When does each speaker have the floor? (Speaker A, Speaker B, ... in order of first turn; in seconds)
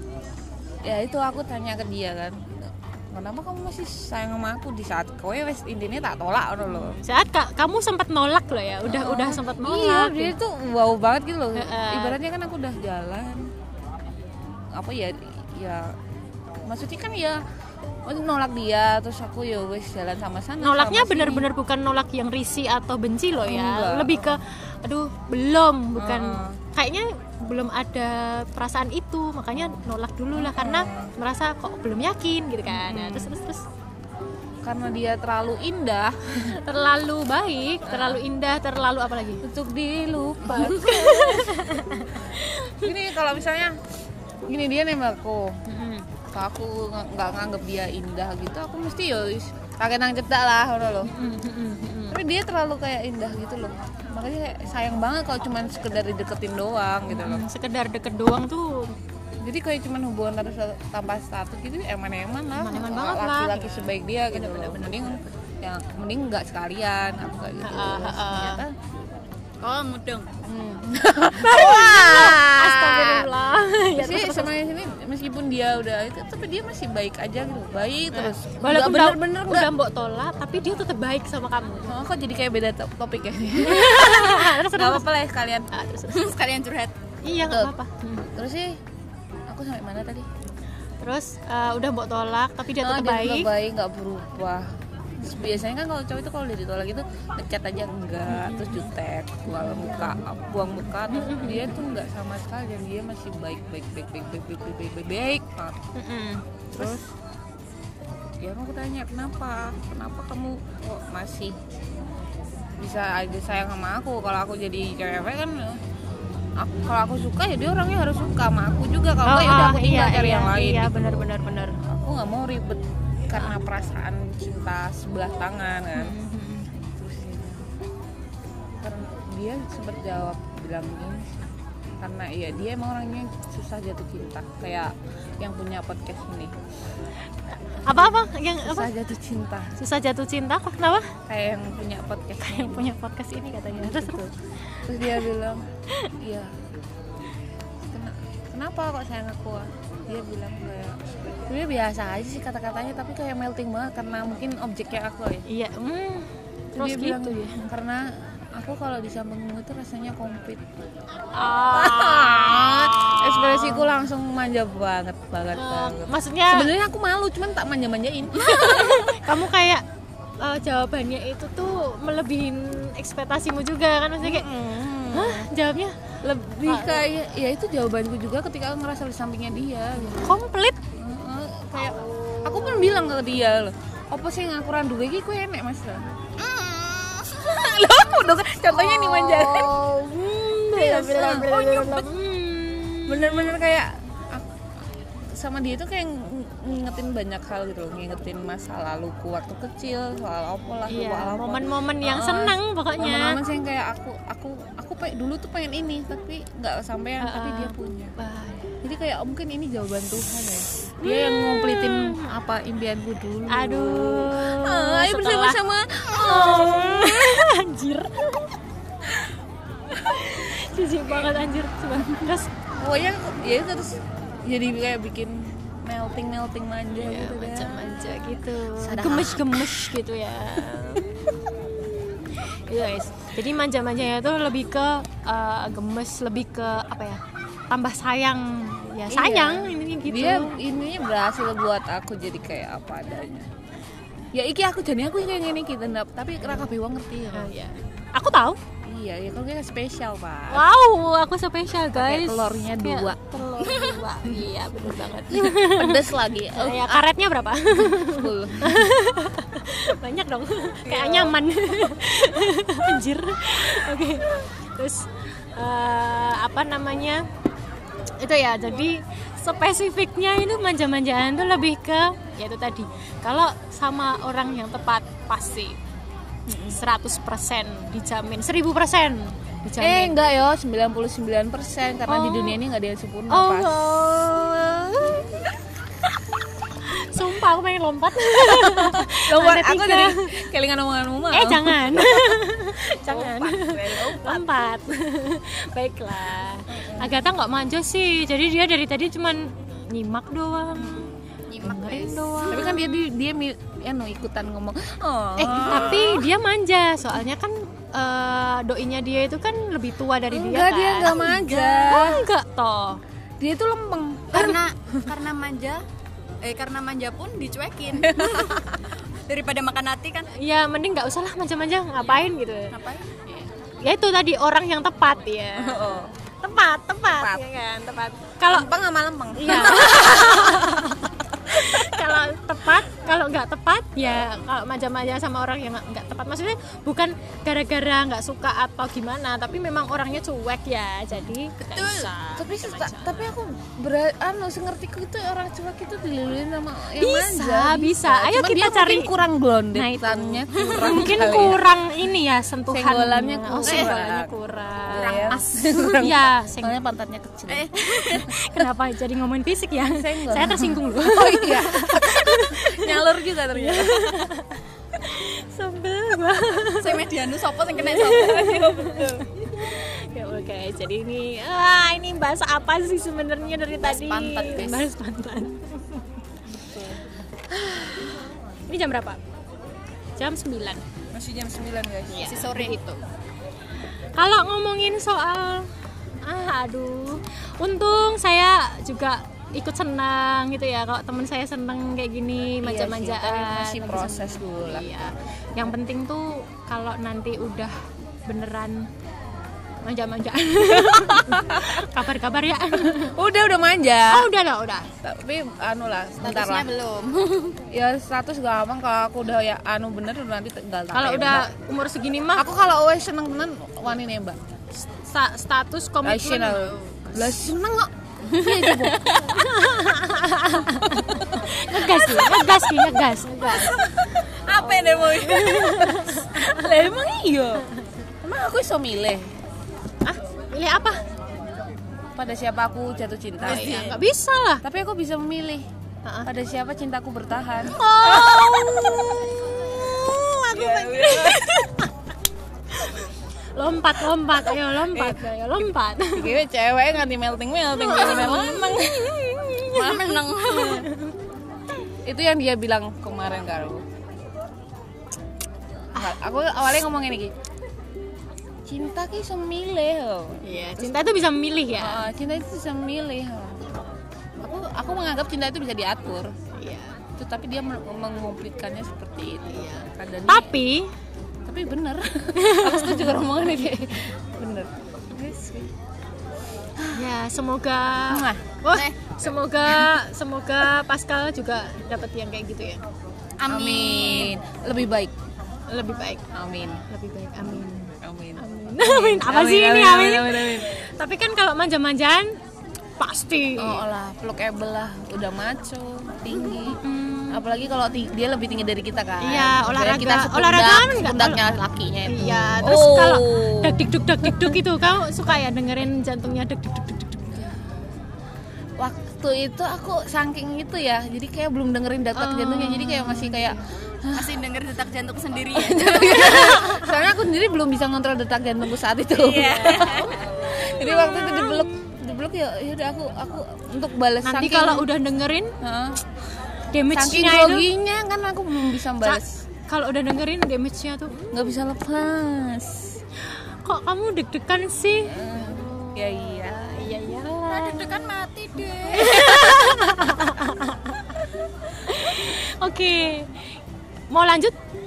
Speaker A: 0.8-7.0, 8.9-13.5, 14.7-15.9, 16.7-17.4, 18.0-21.5, 23.4-24.4, 26.0-26.6, 30.3-31.1, 32.7-33.4, 34.6-36.6, 37.9-38.2, 39.4-41.7, 42.8-43.8, 44.5-45.6, 46.3-51.1, 52.1-57.4, 59.4-68.8, 70.5-73.3, 74.0-79.7, 81.9-85.7, 87.5-87.7, 88.3-88.8, 89.5-90.3, 92.8-94.7, 95.2-105.8, 106.7-107.1, 108.4-111.6, 112.8-115.8, 116.6-126.1, 126.8-127.7, 128.8-131.5, 132.0-136.5, 137.9-139.8, 141.3-142.9, 143.7-144.2, 144.8-145.6, 146.2-146.5, 147.8-155.4, 156.8-160.6, 161.6-169.3, 174.2-175.5, 176.2-180.4, 181.0-186.2, 187.4-189.8, 190.7-192.1, 193.1-194.5, 195.2-208.1, 208.8-217.5, 221.2-221.4, 222.8-228.0, 228.8-229.9, 239.1-243.5, 244.3-247.5, 248.8-250.7, 251.9-257.1, 257.7-258.9, 260.9-261.4, 276.5-276.8, 279.8-283.8, 288.3-292.4, 293.0-294.5, 296.7-297.2, 300.8-301.1, 302.5-306.3, 310.3-312.3, 313.4-314.6, 318.0-318.9, 325.6-326.1, 327.1-327.5, 328.4-332.1, 342.4-351.6, 352.7-354.3, 354.9-358.6, 359.9-364.3, 376.5-377.1, 381.1-382.4, 392.6-394.9, 400.8-401.9, 402.9-404.3, 405.0-406.7, 407.7-411.5, 412.4-414.4, 416.0-419.2, 420.6-422.9, 423.5-427.6, 428.2-429.3, 432.1-434.0, 434.6-435.7, 436.2-440.0, 440.5-441.4, 444.3-445.2, 446.1-449.1, 452.0-453.8, 455.8-457.3, 458.7-461.1, 461.7-463.8, 464.4-466.3, 467.2-470.6, 471.4-475.7, 476.8-477.0, 478.1-478.5, 479.6-480.0, 483.5-485.1, 486.3-486.8, 488.0-490.8, 493.6-504.5, 508.8-514.4, 515.5-524.9, 525.6-526.0, 526.9-529.4, 531.3-533.0, 535.0-537.0
Speaker B: 6.7-10.3, 11.5-12.2, 20.6-33.6, 36.5-39.4, 40.5-42.9, 45.7-46.1, 51.0-52.2, 57.1-59.0, 62.5-64.8, 67.6-68.6, 71.4-74.5, 78.1-81.9, 83.6-85.1, 85.7-86.3, 87.2-88.3, 91.0-93.5, 95.3-95.6, 98.3-98.9, 99.5-100.2, 101.0-101.8, 106.0-107.0, 119.2-121.8, 126.0-126.7, 137.8-138.9, 139.8-141.1, 142.4-144.3, 145.0-145.2, 155.5-157.6, 161.3-163.9, 165.5-166.7, 168.4-169.8, 170.4-174.5, 175.1-175.9, 176.7-177.1, 180.2-180.8, 188.7-193.5, 200.9-203.4, 207.2-208.7, 211.0-212.3, 213.5-218.5, 219.9-222.5, 227.0-231.3, 232.1-240.5, 247.3-248.6, 250.5-267.2, 268.2-275.8, 276.5-280.1, 282.1-282.6, 283.3-285.5, 286.8-290.3, 291.3-301.1, 301.6-303.0, 305.4-311.3, 311.9-313.0, 320.3-322.7, 323.8-328.7, 329.4-343.3, 347.0-349.1, 349.7-356.8, 358.1-367.0, 367.8-376.0, 377.5-379.2, 380.2-380.8, 382.1-382.8, 384.2-385.7, 386.2-397.7, 398.3-398.9, 399.8-403.1, 404.1-404.9, 410.9-412.5, 414.8-417.3, 419.2-423.8, 425.1-426.7, 430.0-431.0, 433.4-434.6, 437.7-441.9, 442.7-446.4, 447.7-451.1, 460.4-462.0, 466.5-467.0, 469.5-470.9, 472.3-473.2, 476.9-482.8, 485.7-486.2, 486.9-492.4, 493.0-493.8, 496.5-497.4, 499.2-501.4, 502.1-507.6, 512.2-513.6, 516.0-516.9, 519.3-522.0, 524.2-525.5, 526.7-527.7, 529.0-531.3, 533.2-538.1, 538.8-541.2, 541.7-543.6, 544.1-544.5
Speaker C: 69.6-70.3, 86.1-87.0, 186.4-188.0, 253.6-254.0, 301.5-302.7, 311.1-312.1, 314.3-315.8, 316.4-318.7, 319.3-320.3, 322.7-323.4, 341.6-342.1, 350.5-351.0, 353.5-353.9, 354.9-355.4, 357.5-358.3, 366.8-369.2, 373.8-374.9, 382.2-383.0, 406.2-407.6, 418.3-419.2, 424.2-425.4, 433.5-433.9, 447.9-448.8, 449.6-450.9, 478.7-479.2, 483.4-484.3, 514.1-516.6, 519.2-520.3, 537.5-539.8